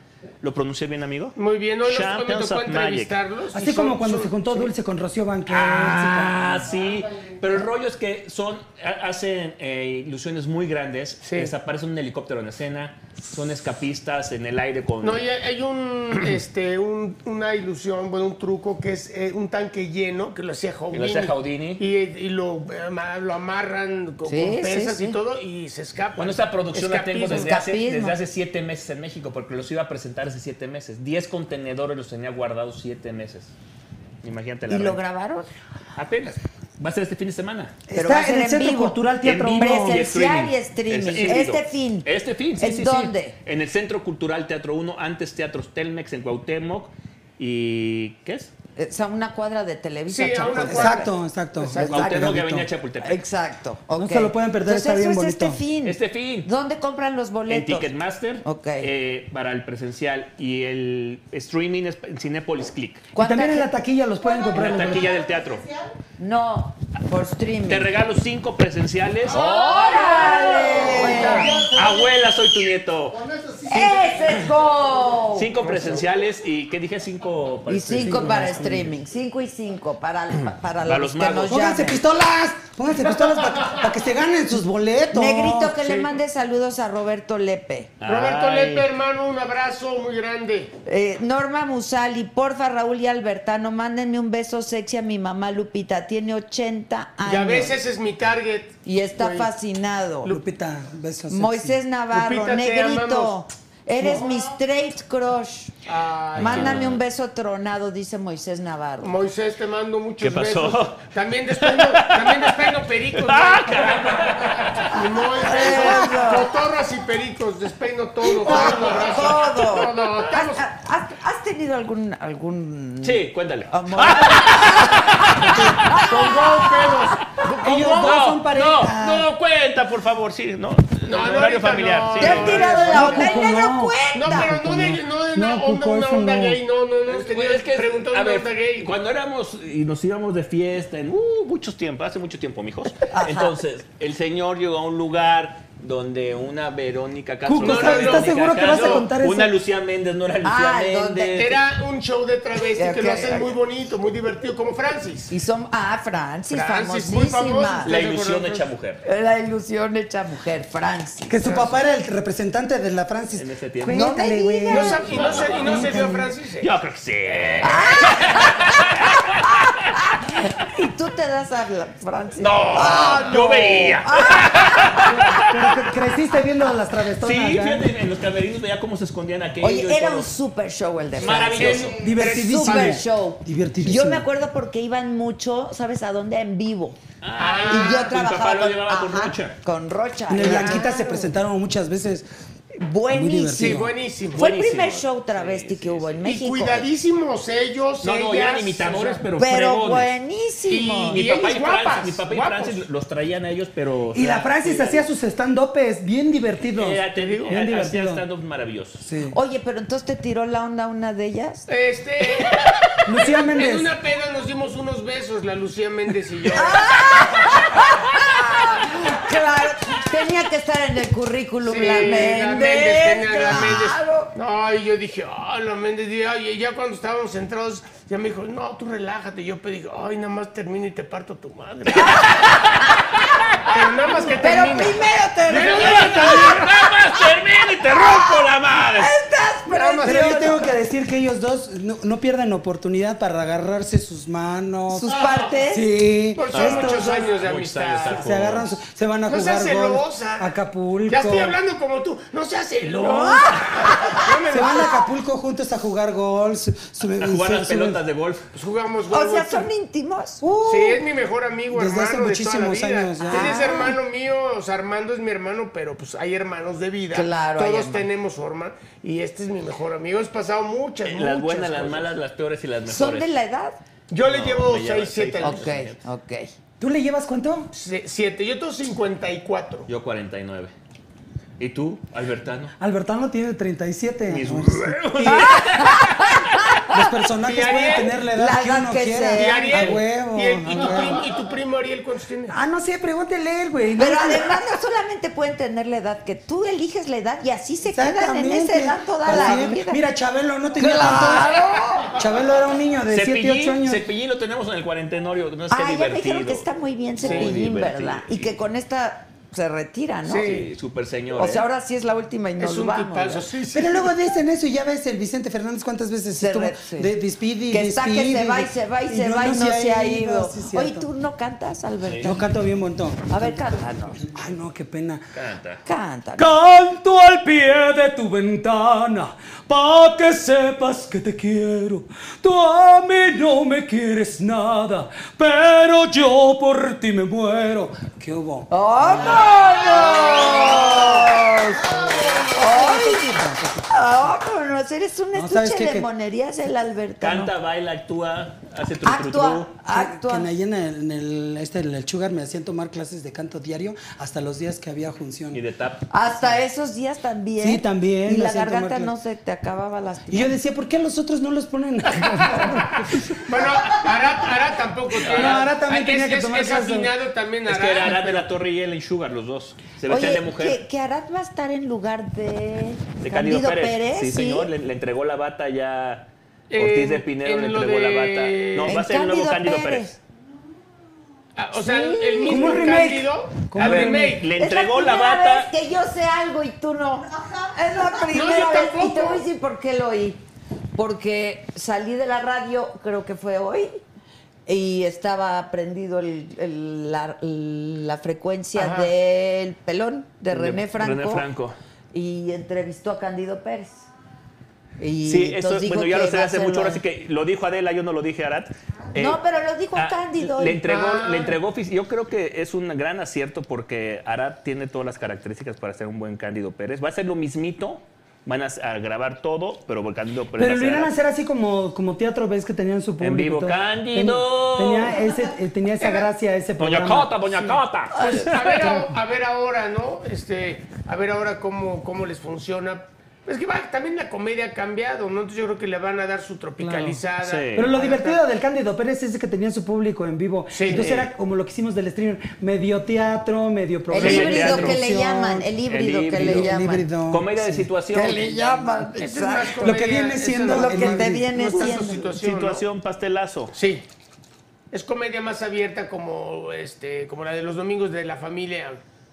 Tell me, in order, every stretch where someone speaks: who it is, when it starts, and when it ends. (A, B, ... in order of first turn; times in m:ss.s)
0:00.4-0:03.2 A
0:01.4-0:04.7 B
0:03.5-0:06.6 C
0:05.5-0:15.2 A
0:06.8-0:07.4 D
0:11.2-0:11.5 B
0:15.0-0:27.6 B
0:20.9-0:21.8 A
0:24.2-0:25.2 E
0:26.2-0:33.5 A
0:27.3-0:28.2 E
0:34.2-0:35.0 A
0:34.7-0:35.5 E
0:36.0-0:37.8 A
0:37.9-0:40.1 C
0:37.9-0:39.0 E
0:39.2-0:48.5 A
0:39.6-0:43.4 E
0:48.8-0:52.4 E
0:50.1-0:51.9 B
0:50.6-0:52.7 C
0:51.8-0:53.2 A
0:53.0-0:57.9 E
0:54.0-0:55.6 C
0:55.8-0:56.5 A
0:57.5-1:03.1 A
0:58.4-0:58.9 E
1:03.2-1:03.7 E
1:03.2-1:05.1 C
1:04.3-1:05.6 A
1:04.8-1:05.8 D
1:06.2-1:07.9 E
1:07.6-1:13.2 A
1:09.3-1:11.6 E
1:09.3-1:12.2 D
1:09.4-1:10.3 B
1:11.1-1:11.4 B
1:13.1-1:14.8 D
1:13.6-1:15.6 E
1:15.3-1:18.7 A
1:15.6-1:16.0 B
1:17.7-1:22.0 E
1:18.0-1:18.9 C
1:20.8-1:21.6 A
1:21.5-1:25.8 C
1:25.1-1:27.9 E
1:25.8-1:26.1 B
1:28.0-1:28.9 A
1:28.0-1:30.7 B
1:30.8-1:37.8 E
1:37.2-1:39.5 B
1:38.8-1:40.4 E
1:40.2-1:41.8 C
1:41.3-1:45.7 E
1:42.1-1:43.4 B
1:44.0-1:44.4 B
1:45.8-1:46.8 B
1:46.3-1:47.0 A
1:46.4-1:49.1 E
1:49.0-2:00.6 B
1:50.2-1:55.0 A
1:55.4-1:56.5 E
1:55.6-1:55.9 A
1:58.3-2:06.6 E
1:58.5-1:59.2 A
2:03.0-2:07.0 A
2:06.0-2:08.2 B
2:07.6-2:09.3 C
2:07.8-2:12.9 A
2:11.0-2:13.4 B
2:12.2-2:14.6 E
2:12.7-2:16.6 C
2:14.1-2:18.9 B
2:17.1-2:31.6 A
2:23.1-2:23.6 E
2:27.4-2:29.5 C
2:27.6-2:29.0 B
2:30.4-2:31.5 E
2:31.4-2:35.3 B
2:32.6-2:33.6 E
2:35.3-2:37.9 E
2:36.5-2:38.7 B
2:37.8-2:39.0 A
2:39.0-2:41.4 E
2:41.3-2:46.3 C
2:41.4-2:41.8 B
2:43.3-2:44.1 A
2:43.9-2:45.6 E
2:44.7-2:46.7 B
2:45.1-2:46.0 A
2:46.6-2:49.4 A
2:47.3-2:47.8 B
2:47.6-2:48.9 E
2:49.4-2:55.1 E
2:52.4-2:55.7 A
2:52.8-2:53.7 B
2:55.0-2:57.9 C
2:57.2-3:00.3 A
2:59.6-3:07.0 E
3:01.2-3:02.0 A
3:01.2-3:03.0 B
3:01.9-3:04.2 C
3:07.2-3:09.6 A
3:07.4-3:08.1 B
3:07.7-3:11.3 E
3:10.3-3:12.2 C
3:10.4-3:10.9 B
3:12.7-3:16.9 E
3:13.1-3:13.9 C
3:13.5-3:14.4 B
3:14.3-3:16.2 A
3:16.2-3:19.2 B
3:18.0-3:20.1 A
3:19.4-3:21.2 E
3:20.7-3:22.8 B
3:21.0-3:25.0 A
3:24.1-3:28.2 C
3:26.7-3:29.0 A
3:27.2-3:27.6 B
3:29.0-3:29.4 C
3:29.3-3:31.7 E
3:31.7-3:37.6 B
3:33.0-3:33.9 C
3:36.5-3:44.3 E
3:41.6-3:52.5 B
3:52.0-3:53.0 E
3:52.3-3:52.8 A
3:53.6-3:56.6 B
3:53.7-3:56.7 E
3:55.5-3:59.1 A
3:57.9-4:00.7 E
3:59.7-4:00.7 B
4:00.0-4:05.2 C
4:04.9-4:05.9 E
4:05.1-4:05.5 B
4:05.7-4:07.3 C
4:06.3-4:08.3 B
4:06.5-4:08.7 A
4:08.1-4:11.6 C
4:09.3-4:10.5 B
4:11.1-4:15.0 B
4:12.8-4:13.4 C
4:12.9-4:14.8 E
4:14.5-4:18.0 C
4:17.2-4:18.5 A
4:18.5-4:19.7 B
4:19.1-4:20.4 E
4:20.4-4:21.0 C
4:20.6-4:32.1 B
4:21.7-4:23.8 C
4:23.2-4:24.0 E
4:27.1-4:28.1 E
4:31.0-4:33.3 A
4:32.8-4:33.8 E
4:34.1-4:35.8 B
4:34.2-4:36.0 A
4:35.4-4:36.5 E
4:36.8-4:37.7 C
4:37.7-4:39.9 B
4:39.9-4:40.7 A
4:41.6-4:42.7 A
4:42.8-4:45.5 C
4:44.3-4:46.4 A
4:45.2-4:47.1 E
4:46.9-4:51.2 C
4:47.4-4:48.2 B
4:48.3-4:50.0 E
4:49.3-4:52.6 B
4:52.5-4:54.6 C
4:54.0-5:00.0 E
4:57.9-5:01.5 C
4:59.3-4:59.6 B
5:00.8-5:02.2 E
5:02.1-5:04.0 C
5:03.1-5:06.6 A
5:05.7-5:10.5 E
5:07.2-5:08.5 A
5:07.2-5:07.6 B
5:10.2-5:10.7 B
5:10.3-5:11.6 A
5:11.3-5:13.4 E
5:12.6-5:14.1 B
5:13.7-5:21.0 C
5:16.3-5:17.1 E
5:17.7-5:22.5 E
5:22.0-5:22.3 A
5:22.2-5:23.6 C
5:23.3-5:24.2 E
5:24.2-5:25.2 C
5:25.3-5:25.8 A
5:25.8-5:26.6 E
5:26.4-5:38.7 C
5:38.7-5:47.5 E
5:39.3-5:40.9 B
5:42.0-5:42.3 D
5:42.1-5:43.9 C
5:45.3-5:46.1 C
5:47.2-5:49.7 A
5:49.0-5:50.5 E
5:49.9-5:55.6 C
5:55.5-5:56.1 A
5:56.1-6:00.6 E
5:57.6-5:59.1 C
6:00.3-6:03.5 C
6:03.4-6:08.4 B
6:05.2-6:07.1 C
6:07.7-6:10.8 A
6:10.1-6:14.7 E
6:13.2-6:20.2 A
6:16.7-6:19.0 B
6:18.8-6:20.1 E
6:21.6-6:24.4 B
6:21.7-6:23.0 E
6:22.4-6:24.4 C
6:23.8-6:25.7 A
6:24.6-6:30.4 E
6:28.3-6:29.4 B
6:30.9-6:34.0 E
6:34.6-6:41.5 E
6:38.7-6:39.1 B
6:40.5-6:41.8 A
6:42.1-6:44.1 E
6:45.0-6:47.0 E
6:45.2-6:49.4 A
6:49.1-6:50.8 E
6:49.9-7:01.1 A
6:50.9-6:51.6 B
7:00.6-7:07.4 C
7:03.2-7:05.2 A
7:06.0-7:06.3 B
7:06.8-7:09.1 A
7:08.2-7:18.4 B
7:08.3-7:09.0 C
7:16.8-7:17.2 C
7:17.4-7:17.9 A
7:17.7-7:25.7 C
7:20.7-7:21.1 B
7:20.9-7:21.3 A
7:24.1-7:27.1 E
7:24.1-7:25.0 A
7:24.2-7:24.6 B
7:25.8-7:26.7 A
7:26.3-7:27.9 C
7:27.3-7:29.0 A
7:28.1-7:30.0 E
7:29.2-7:32.8 B
7:29.7-7:31.6 C
7:30.6-7:32.2 E
7:31.7-7:33.7 A
7:33.7-7:34.0 B
7:34.9-7:39.0 B